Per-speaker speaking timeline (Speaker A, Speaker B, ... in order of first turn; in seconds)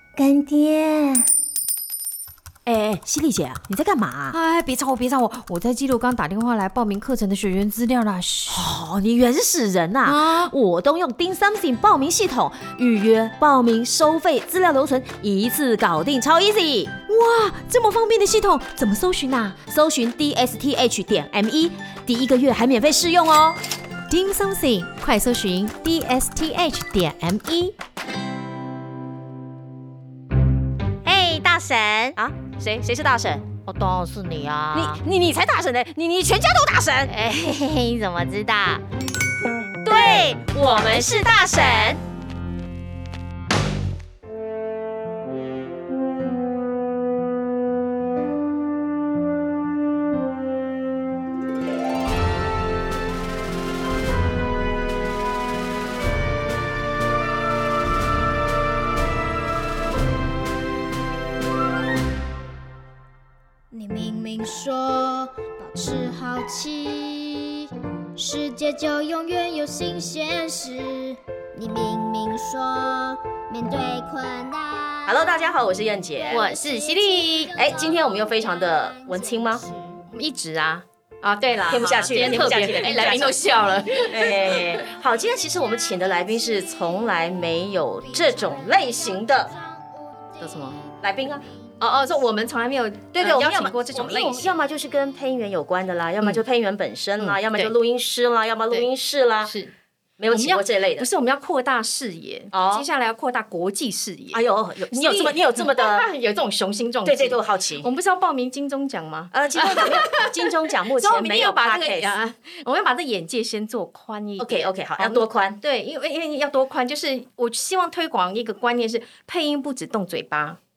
Speaker A: 0.2-1.3, 2.7-4.4, 8.5-17.1, 19.6-23.6, 31.1-33.4, 34.7-37.1, 39.8-42.0, 75.1-76.5, 77.6-79.7, 81.6-83.4, 84.1-89.5, 91.0-91.5, 93.2-99.5, 100.2-101.1, 102.5-102.9, 104.3-106.1, 107.0-107.9, 109.3-112.1, 114.4-115.6
Speaker B: 4.3-8.7, 10.0-10.6, 17.1-19.6, 24.1-27.8, 31.2-32.1, 33.6-35.0, 37.1-38.8, 76.3-77.6, 80.1-84.7, 90.4-90.8, 91.8-94.5, 97.2-97.8, 99.4-99.7, 100.3-120.6
Speaker C: 63.7-80.0, 83.2-92.5